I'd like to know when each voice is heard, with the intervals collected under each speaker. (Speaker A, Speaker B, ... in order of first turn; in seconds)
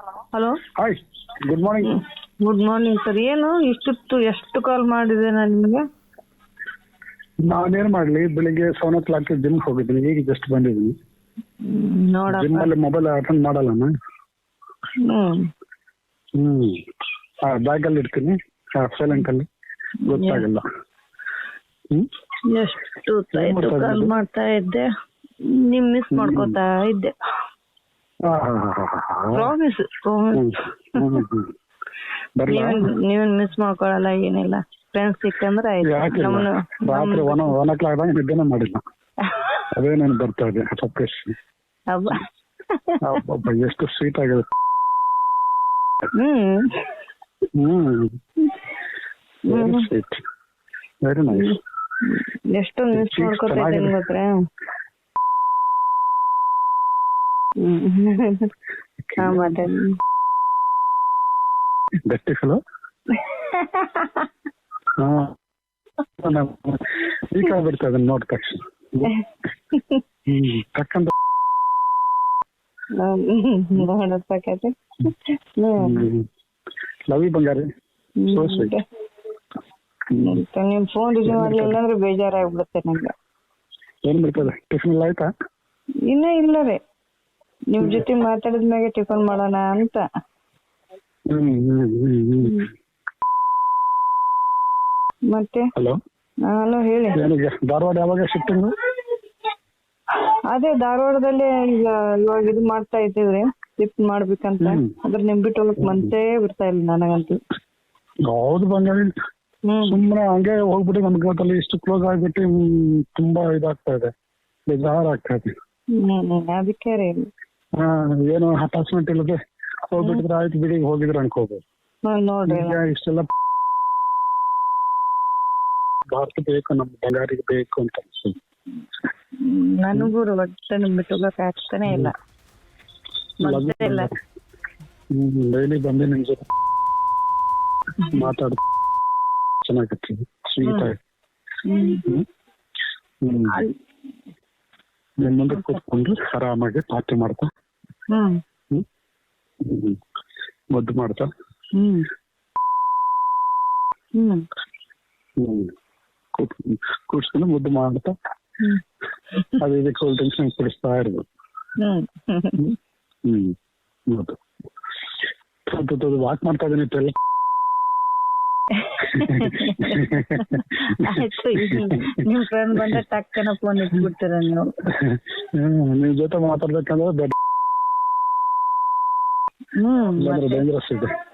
Speaker A: 0.3-0.6, 1.8-5.8, 11.7-12.7, 15.0-15.5, 20.1-20.4, 22.5-24.9, 25.5-27.1, 29.3-31.2, 32.5-37.5, 41.9-43.0, 46.1-46.9, 49.5-49.9, 51.3-54.3, 57.6-58.5, 59.2-59.9, 63.1-64.3, 69.0-70.0, 73.0-76.0, 78.2-78.8, 80.1-83.1, 86.1-86.8, 87.7-90.0, 95.3-95.7, 96.5-97.2, 100.5-107.4, 109.7-110.0, 116.0-117.3, 122.1-122.8, 129.4-132.2, 133.4-134.1, 138.0-138.3, 140.6-140.9, 141.7-142.1, 145.5-145.8, 148.1-148.4, 151.8-152.1, 154.2-154.4, 161.8-162.6, 168.8-174.7, 179.8-180.7
Speaker B: 0.8-2.0, 7.5-11.0, 12.3-13.9, 16.4-16.8, 17.5-19.5, 20.1-20.6, 23.3-24.1, 26.1-26.6, 28.3-29.5, 30.3-31.5, 32.4-32.9, 35.8-38.8, 39.8-41.4, 43.0-44.5, 47.6-48.1, 49.5-50.2, 51.0-51.6, 52.9-54.0, 59.1-59.4, 62.1-62.6, 65.0-65.3, 66.2-69.1, 70.3-71.1, 75.8-76.3, 77.1-77.7, 78.3-78.7, 80.1-80.4, 81.2-81.8, 84.0-85.3, 87.8-88.0, 91.3-92.7, 97.1-98.7, 104.6-104.9, 105.8-106.1, 108.3-109.1, 109.8-114.1, 114.7-115.5, 117.8-119.4, 119.9-121.6, 122.5-123.3, 126.1-128.4, 131.9-132.1, 133.4-134.1, 135.1-136.4, 138.1-138.6, 139.6-141.0, 143.2-143.6, 145.2-147.5, 149.6-150.0, 150.7-151.3, 155.4-155.7, 156.3-158.1, 159.6-161.2, 163.3-163.6, 164.1-164.4, 165.7-167.1, 169.2-172.2, 174.9-177.3, 180.2-181.1